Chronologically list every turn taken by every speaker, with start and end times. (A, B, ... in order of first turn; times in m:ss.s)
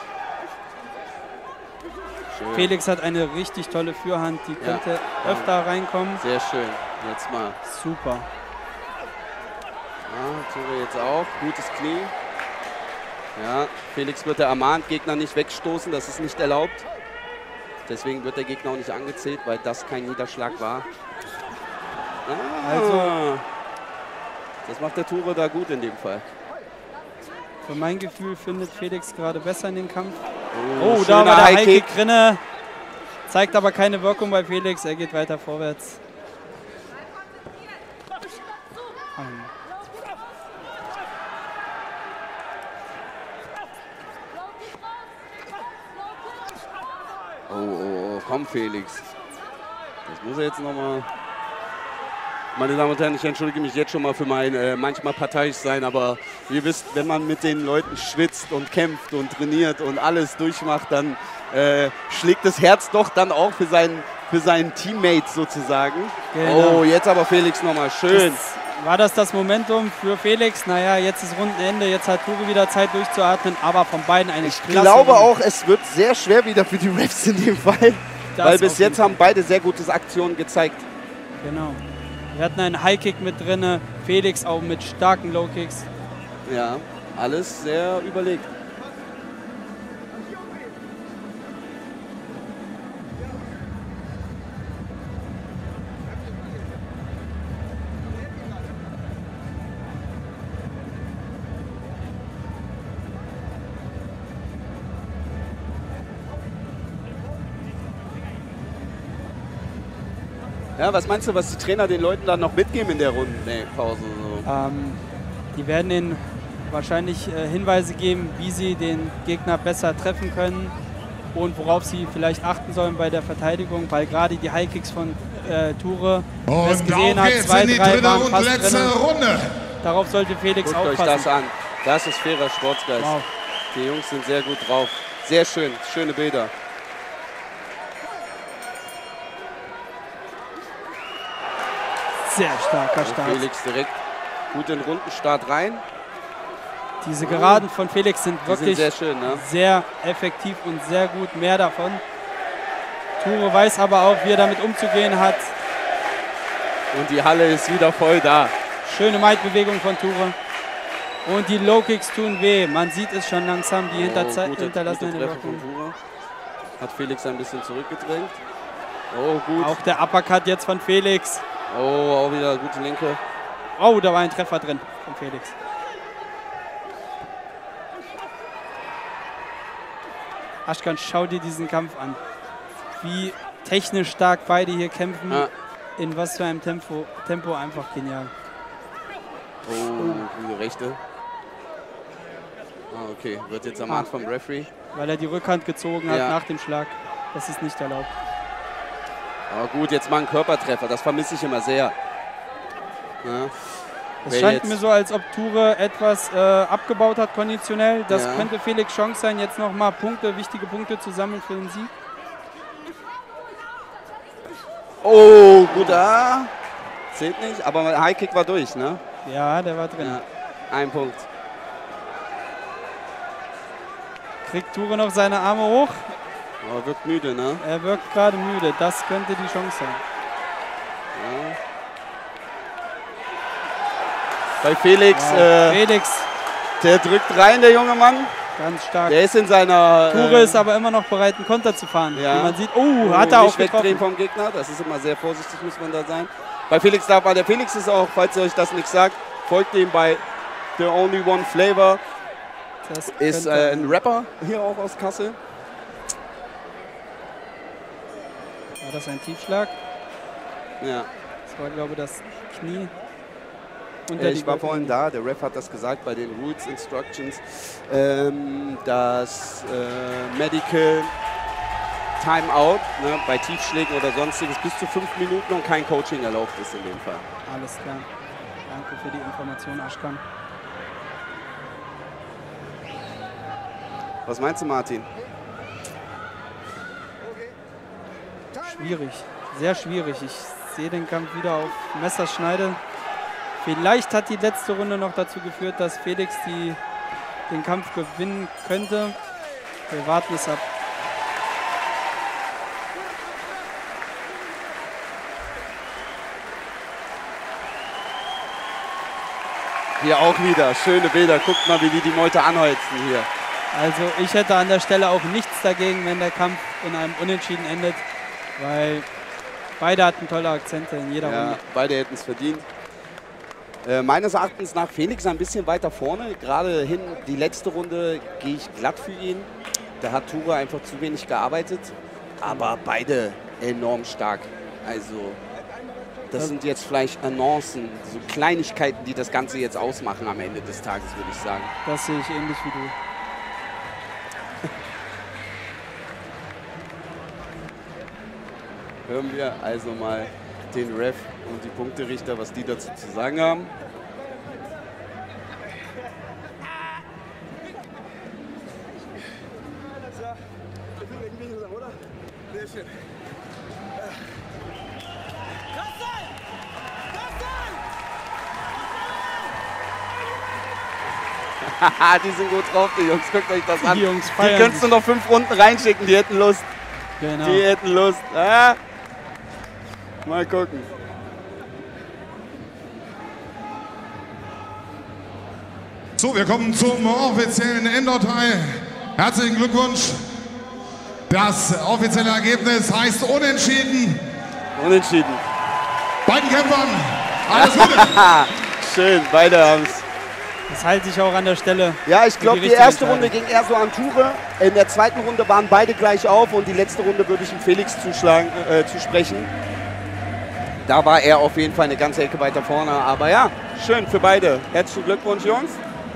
0:02.3-0:02.7 A
0:02.5-0:06.2 B
0:04.6-0:05.5 A
0:06.2-0:07.6 A
0:07.6-0:08.3 B
0:10.1-0:12.1 A
0:13.4-0:16.8 A
0:17.9-0:20.9 A
0:22.3-0:23.4 A
0:22.6-0:23.2 B
0:24.7-0:26.3 A
0:27.6-0:30.2 B
0:30.5-0:31.9 A
0:30.8-0:32.4 B
0:33.3-0:36.0 B
0:39.2-0:39.5 B
0:47.5-0:49.1 A
0:50.1-0:51.1 A
0:52.6-1:08.4 A
1:06.3-1:06.8 B
1:08.1-1:15.3 B
1:14.4-1:20.8 A
1:18.4-1:19.2 B
1:21.4-1:21.8 B
1:22.3-1:25.9 B
1:26.5-1:28.5 A
1:50.8-1:54.5 A
1:54.4-1:55.0 B
1:55.5-2:00.8 B
2:01.3-2:09.0 B
2:06.5-2:09.5 C
2:09.8-2:11.3 B
2:10.6-2:13.2 A
2:13.0-2:13.3 B
2:13.7-2:16.5 A
2:22.2-2:23.5 B
2:23.0-2:24.0 A
2:24.5-2:25.8 A
2:27.0-2:32.0 B
2:27.2-2:27.7 A
2:28.5-2:29.4 A
2:33.2-2:35.5 B
2:36.9-2:38.5 A
2:38.8-2:40.4 B
2:41.2-2:45.6 B
2:43.9-2:46.0 A
2:46.8-2:48.4 A
2:49.1-2:49.8 A
2:49.6-2:51.4 B
2:51.7-2:53.2 A
2:53.8-2:55.6 B
3:00.7-3:02.2 B
3:03.0-3:08.3 B
3:09.6-3:11.0 A
3:10.0-3:10.2 B
3:12.9-3:14.7 A
3:14.9-3:18.1 B
3:16.1-3:16.4 A
3:19.5-3:22.0 A
3:23.2-3:23.5 A
3:24.2-3:31.9 B
3:24.3-3:24.8 A
3:28.1-3:28.5 A
3:35.0-3:36.5 A
3:35.7-3:36.0 B
3:37.1-3:39.0 A
3:39.2-3:40.2 B
3:40.0-3:41.3 A
3:44.4-3:46.2 B
3:46.6-3:47.6 A
3:47.6-3:50.0 B
3:51.2-3:51.6 A
3:54.6-3:55.8 A
3:55.1-3:56.3 B
3:56.8-3:58.3 A
3:58.6-3:59.2 B
3:59.1-4:00.6 A
4:00.1-4:04.0 B
4:02.2-4:10.2 A
4:10.8-4:12.0 A
4:12.8-4:14.0 B
4:13.2-4:15.4 A
4:18.8-4:19.8 B
4:20.8-4:21.1 A
4:21.5-4:22.9 B
4:24.1-4:25.0 B
4:24.2-4:31.1 A
4:32.2-4:37.2 A
4:37.5-4:38.1 B
4:38.7-4:40.2 B
4:44.3-4:45.1 A
4:48.6-4:52.8 B
4:53.6-4:56.8 B
4:57.5-4:59.2 B
4:59.9-5:00.6 B
5:10.0-5:13.3 A
5:13.7-5:18.0 B
5:18.6-5:19.1 B
5:19.8-5:21.6 B
5:21.2-5:22.7 A
5:23.8-5:29.5 A
5:30.0-5:35.4 A
5:32.5-5:32.7 B
5:36.3-5:41.7 A
5:41.8-5:43.0 B
5:49.1-5:53.7 A
6:11.6-6:16.7 A
6:13.8-6:14.9 B
6:17.2-6:17.7 B
6:17.4-6:18.8 A
6:20.2-6:20.9 A
6:26.2-6:28.6 C
6:29.2-6:30.2 C
6:31.3-6:34.2 C
6:34.8-6:35.4 A
6:36.3-6:38.2 C
6:37.5-6:40.0 A
6:40.7-6:43.3 B
6:42.1-6:49.5 A
6:50.8-6:55.8 A